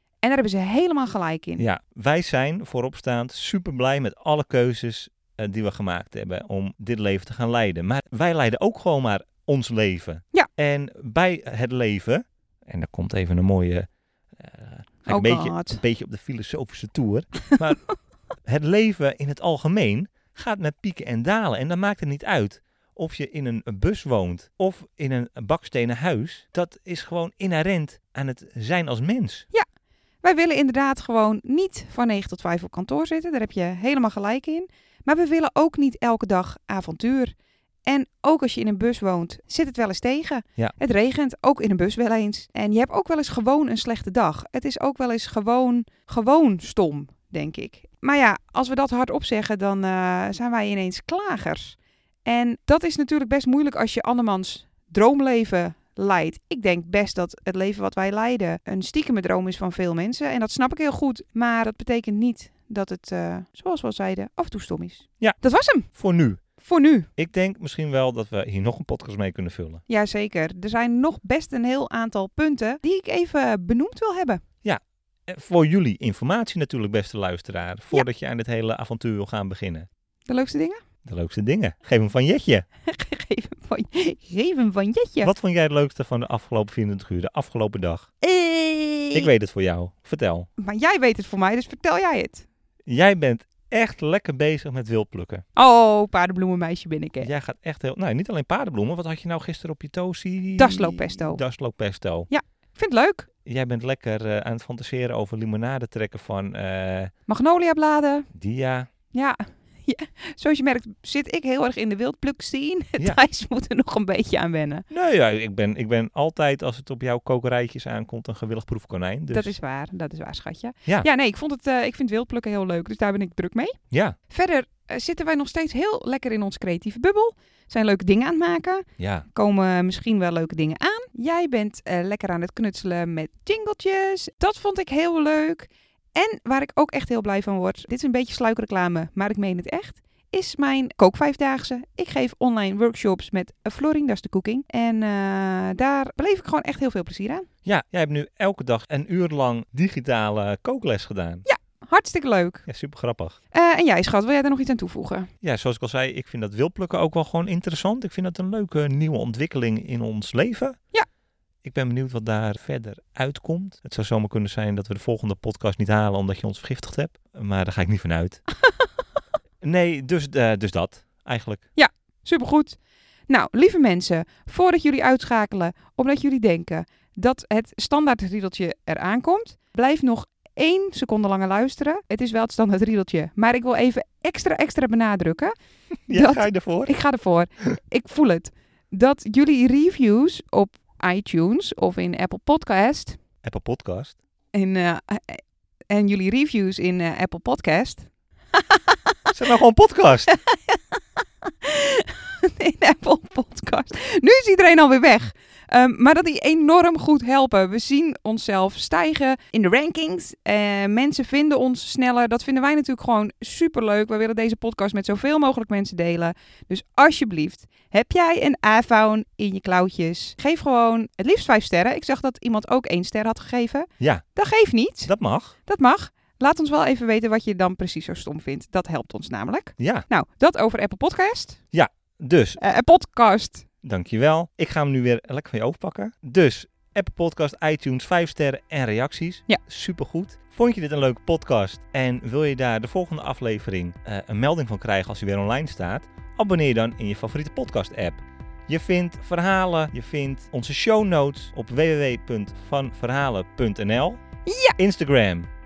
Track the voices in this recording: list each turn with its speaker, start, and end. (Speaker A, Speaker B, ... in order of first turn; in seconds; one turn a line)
Speaker A: 0.2-1.6
Speaker B: 1.6-17.8
Speaker A: 15.1-15.8
Speaker B: 18.4-29.4
Speaker A: 30.2-37.3
Speaker A: 37.9-65.9
Speaker B: 65.9-66.4
Speaker A: 66.6-67.1
Speaker B: 67.2-69.8
Speaker A: 69.9-74.4
Speaker B: 74.6-79.9
Speaker A: 80.3-80.8
Speaker B: 81.0-82.7
Speaker A: 82.8-85.3
Speaker B: 85.2-88.1
Speaker A: 88.2-89.3
Speaker B: 89.1-90.5
Speaker A: 90.6-92.5
Speaker B: 92.8-95.4
Speaker A: 95.5-97.3
Speaker B: 97.2-102.3
Speaker A: 100.6-101.4
Speaker A: 102.3-103.3
Speaker B: 103.4-107.1
Speaker A: 107.3-108.3
Speaker B: 108.3-108.9
Speaker A: 109.1-114.8
Speaker B: 114.9-119.5
Speaker A: 119.3-123.8
Speaker B: 123.9-124.2
Speaker A: 124.3-147.5
Speaker B: 129.0-129.2
Speaker B: 147.6-151.4
Speaker A: 151.4-152.7
Speaker B: 152.7-153.4
Speaker A: 153.5-155.3
Speaker B: 155.4-160.8
Speaker B: 161.6-168.4
Speaker B: 169.6-171.6
Speaker A: 171.8-172.8
Speaker A: 173.3-185.5
Speaker B: 186.1-186.9
Speaker A: 186.1-193.2
Speaker B: 193.4-194.2
Speaker A: 194.5-199.3
Speaker B: 199.3-200.3
Speaker A: 200.3-225.1
Speaker B: 225.1-225.5
Speaker A: 225.7-231.6
Speaker B: 229.8-230.1
Speaker B: 231.7-232.6
Speaker A: 232.6-233.7
Speaker B: 233.8-254.2
Speaker A: 254.4-254.8
Speaker B: 254.8-255.5